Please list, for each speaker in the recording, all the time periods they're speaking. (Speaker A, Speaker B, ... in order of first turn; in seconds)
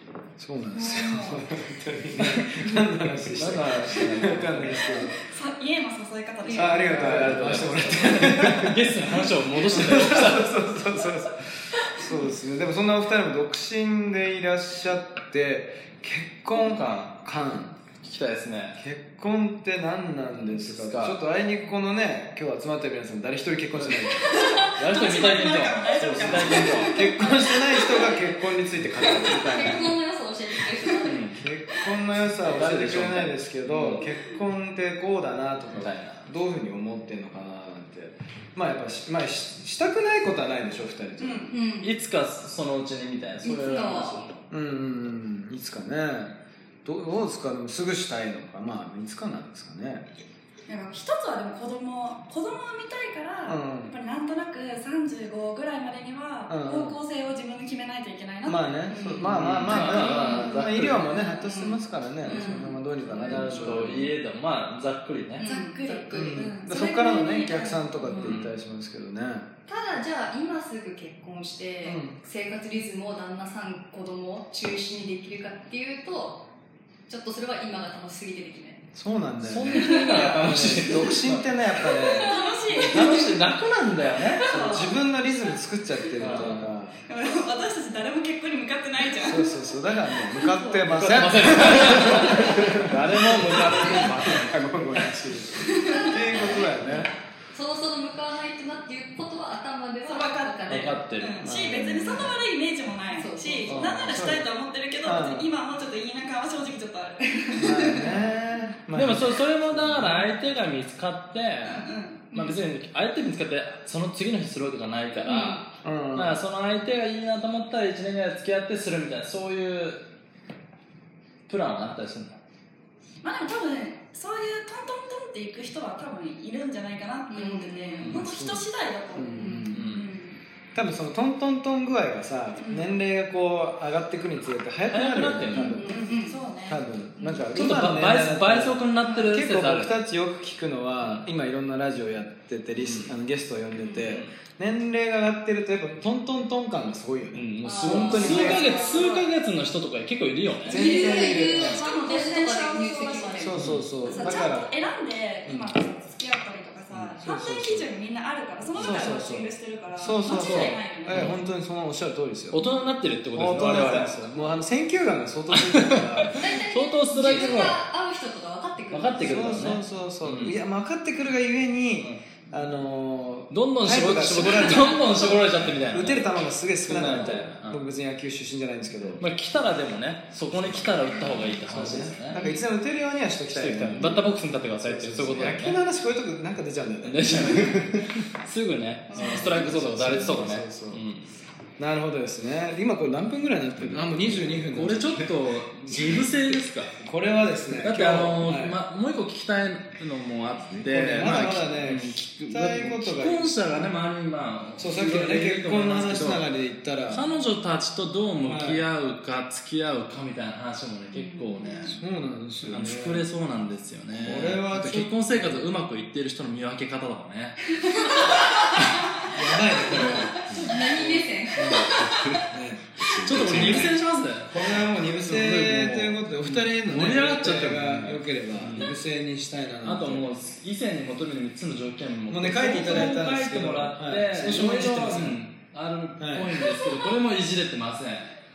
Speaker A: 0.4-5.1, 6.5-17.8, 18.8-24.5, 25.9-30.0, 31.3-41.5, 44.5-50.1, 53.5-53.9, 56.5-57.0, 58.5-64.1, 66.1-69.5, 71.8-72.2, 78.9-82.3, 84.5-87.0, 89.2-97.1, 101.4-102.4, 103.8-104.5, 105.0-105.5, 107.6-110.3, 115.8-116.4, 128.1-130.1, 130.7-135.9, 136.7-148.9, 150.6-151.8, 153.4-154.7, 157.2-157.9, 158.8-162.6, 163.3-166.6, 169.2-179.2, 180.5-181.0, 181.6-188.2, 189.1-191.0, 191.8-196.2, 197.0-198.8, 200.8-203.6, 204.8-207.3, 208.4-208.8, 211.9-213.3, 214.1-215.7, 219.2-223.9, 224.5-230.2, 232.3-235.4, 236.2-236.6
Speaker B: 0.7-1.4, 4.7-7.7, 24.1-28.2, 41.2-41.6, 50.7-59.0, 59.7-60.5, 61.3-61.7, 62.2-63.8, 65.4-68.3, 81.8-83.5, 84.4-85.2, 86.1-86.5, 87.1-89.6, 95.7-96.1, 100.0-108.2, 111.6-112.3, 123.2-130.4, 132.6-133.0, 135.8-136.8, 148.2-149.1, 150.8-161.4
Speaker C: 2.2-5.0, 6.8-10.5, 16.5-17.2, 18.0-18.8, 20.4-21.1, 23.8-24.0, 24.8-27.0, 31.0-31.4, 32.2-34.1, 35.7-36.2, 41.8-44.3, 59.3-61.1, 62.2-65.5, 68.2-68.5, 79.4-81.4, 82.7-84.5, 86.2-86.7, 90.8-95.2, 96.3-97.1, 100.7-101.4, 103.7-104.3, 108.9-115.6, 116.1-120.0, 121.5-122.4, 129.7-130.1, 134.9-135.9, 137.4-140.0, 142.8-143.1, 143.9-144.3, 147.3-151.0, 153.6-153.9, 158.7-159.1, 160.3-161.4, 162.5-164.4, 165.5-167.8, 168.9-170.6, 173.5-176.3, 176.8-177.8, 179.0-182.4, 183.5-185.8, 187.0-191.3, 193.8-197.0, 197.8-206.4, 207.1-212.0, 212.6-219.1, 219.9-221.1, 223.1-228.9, 229.8-238.3
Speaker D: 6.4-6.8, 24.2-24.7, 27.4-28.3, 29.0-31.4, 41.5-41.9, 43.4-44.3, 58.9-60.6, 61.3-61.7, 65.4-66.5, 68.0-68.3, 69.7-76.5, 77.1-78.8, 79.7-80.2, 82.0-83.1, 91.8-92.7, 93.7-94.0, 95.8-96.6, 97.5-101.0, 103.2-103.9, 115.2-115.7, 127.3-128.1, 129.4-129.7, 135.5-136.4, 147.6-149.2, 150.7-154.3, 166.3-169.6, 174.4-175.4, 183.9-184.2, 189.1-189.6, 211.1-212.0, 217.9-218.9, 219.9-222.4